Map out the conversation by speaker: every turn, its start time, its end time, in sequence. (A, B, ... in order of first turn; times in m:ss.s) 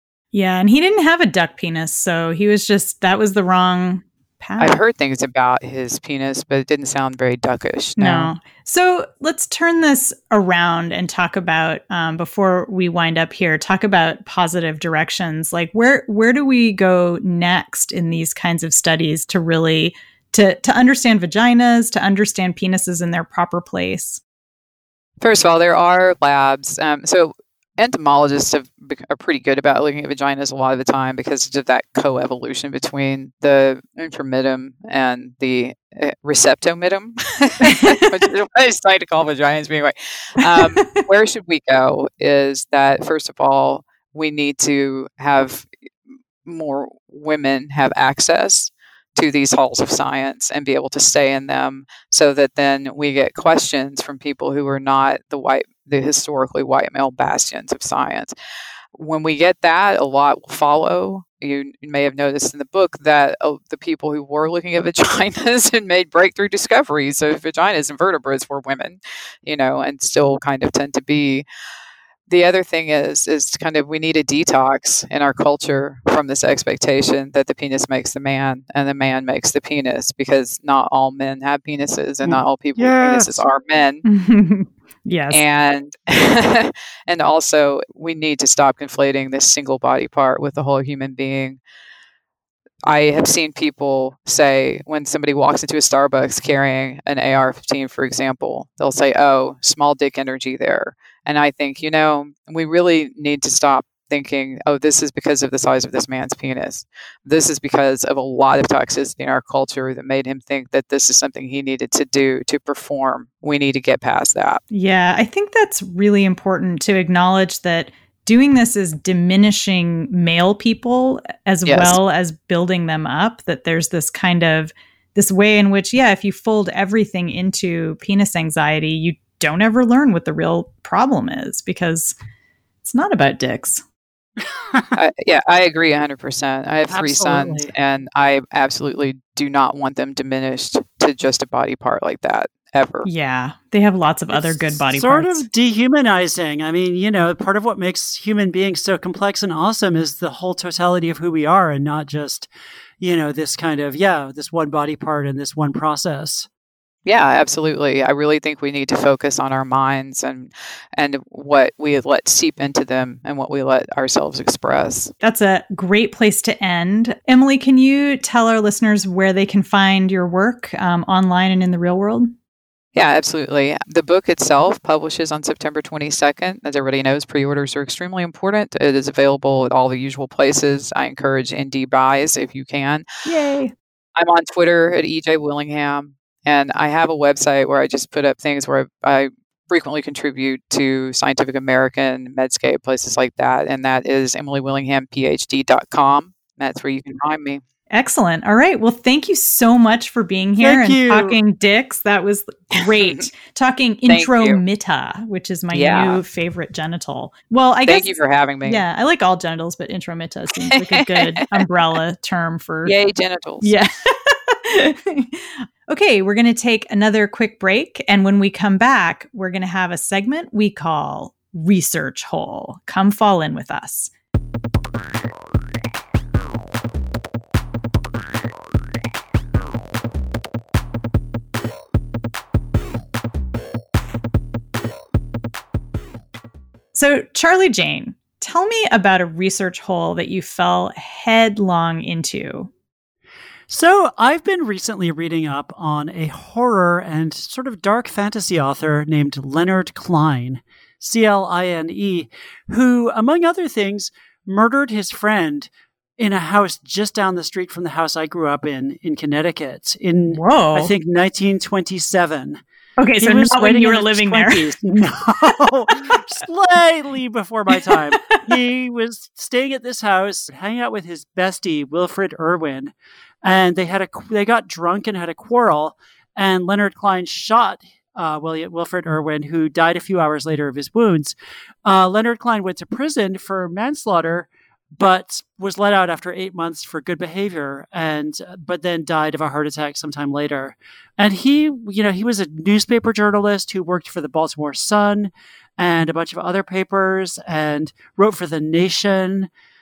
0:00.3-0:04.8 A
0:04.6-0:08.3 B
0:08.0-0:24.2 A
0:25.2-0:45.7 B
0:37.6-0:38.1 A
0:40.5-0:41.0 A
0:46.4-0:58.3 B
0:58.9-1:11.4 B
1:12.3-1:24.0 B
1:22.2-1:23.4 C
1:24.0-1:25.4 A
1:25.3-1:31.6 B
1:32.9-1:54.6 B
1:54.7-2:12.2 A
2:01.7-2:02.0 B
2:12.8-2:13.8 A
2:14.5-2:14.9 C
2:14.9-2:23.1 B
2:16.9-2:17.7 C
2:23.0-2:25.4 A
2:24.3-2:36.5 C
2:37.0-2:45.1 B
2:45.2-2:52.3 A
2:53.0-3:03.0 B
3:03.2-3:03.7 A
3:04.2-3:17.6 B
3:17.9-3:32.9 A
3:20.6-3:21.4 C
3:22.8-3:23.2 B
3:24.1-3:24.6 B
3:25.7-3:26.2 B
3:27.9-3:28.8 B
3:30.7-3:31.6 B
3:32.8-3:33.8 B
3:33.6-3:44.1 A
3:56.9-4:02.7 A
4:03.7-4:22.6 C
4:20.3-4:20.9 A
4:23.0-4:24.7 A
4:23.2-4:59.5 C
4:27.8-4:28.4 A